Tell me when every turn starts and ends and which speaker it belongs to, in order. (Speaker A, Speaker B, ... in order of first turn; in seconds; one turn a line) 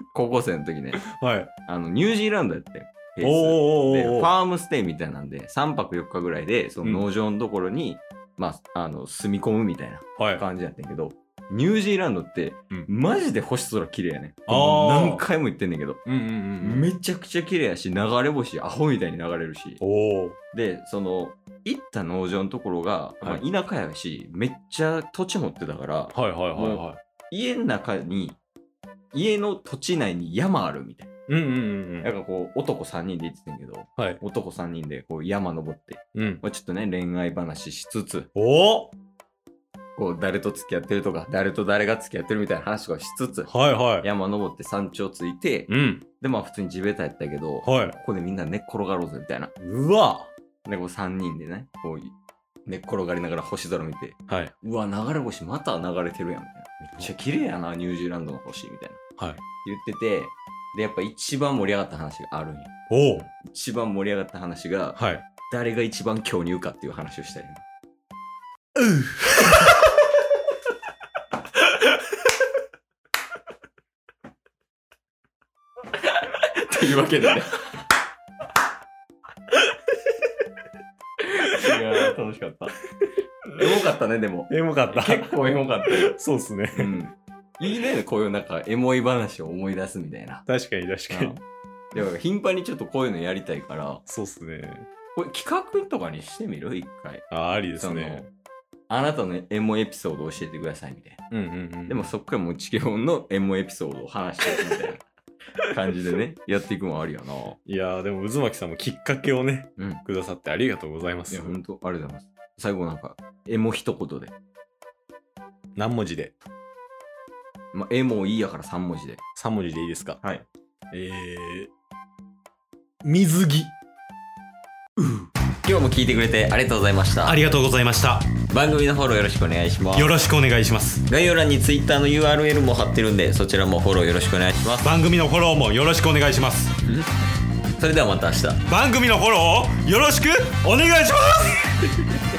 Speaker A: 0.1-1.0
Speaker B: 1.1-1.5
Speaker A: 1.7-16.1
Speaker B: 3.2-4.3
Speaker B: 10.2-10.4
Speaker B: 14.5-15.3
Speaker B: 16.1-16.9
Speaker A: 16.6-19.8
Speaker B: 19.8-20.4
Speaker A: 20.5-28.4
Speaker B: 26.1-27.0
Speaker A: 29.1-31.1
Speaker B: 31.3-32.1
Speaker A: 32.0-38.3
Speaker B: 36.1-36.4
Speaker B: 38.4-39.0
Speaker A: 40.0-49.5
Speaker B: 43.5-44.1
Speaker B: 45.7-46.0
Speaker B: 47.6-48.0
Speaker B: 49.6-50.3
Speaker A: 50.7-52.1
Speaker A: 52.7-59.0
Speaker B: 54.3-54.5
Speaker B: 59.2-59.4
Speaker A: 59.6-62.7
Speaker B: 62.9-63.3
Speaker A: 63.4-65.0
Speaker B: 65.0-65.3
Speaker A: 65.5-67.6
Speaker B: 68.8-69.7
Speaker A: 76.0-77.9
Speaker A: 81.2-82.8
Speaker A: 83.5-86.2
Speaker B: 84.5-87.0
Speaker A: 86.7-90.5
Speaker B: 90.5-91.4
Speaker A: 91.1-94.0
Speaker B: 94.1-94.9
Speaker A: 95.2-98.3
Speaker B: 97.3-98.3
Speaker A: 98.9-101.2
Speaker B: 101.3-102.1
Speaker A: 101.9-105.0
Speaker A: 105.7-107.6
Speaker B: 107.7-111.6
Speaker A: 109.8-110.0
Speaker A: 111.3-114.3
Speaker B: 115.8-116.4
Speaker A: 117.7-119.2
Speaker B: 119.4-120.2
Speaker A: 120.2-120.5
Speaker B: 120.9-121.7
Speaker B: 123.0-123.7
Speaker B: 125.0-125.3
Speaker A: 125.6-127.4
Speaker B: 127.2-128.3
Speaker A: 128.5-130.2
Speaker B: 129.9-131.0
Speaker A: 131.1-134.9
Speaker B: 134.8-136.8
Speaker A: 136.8-137.1
Speaker A: 137.8-138.6
Speaker B: 138.7-141.8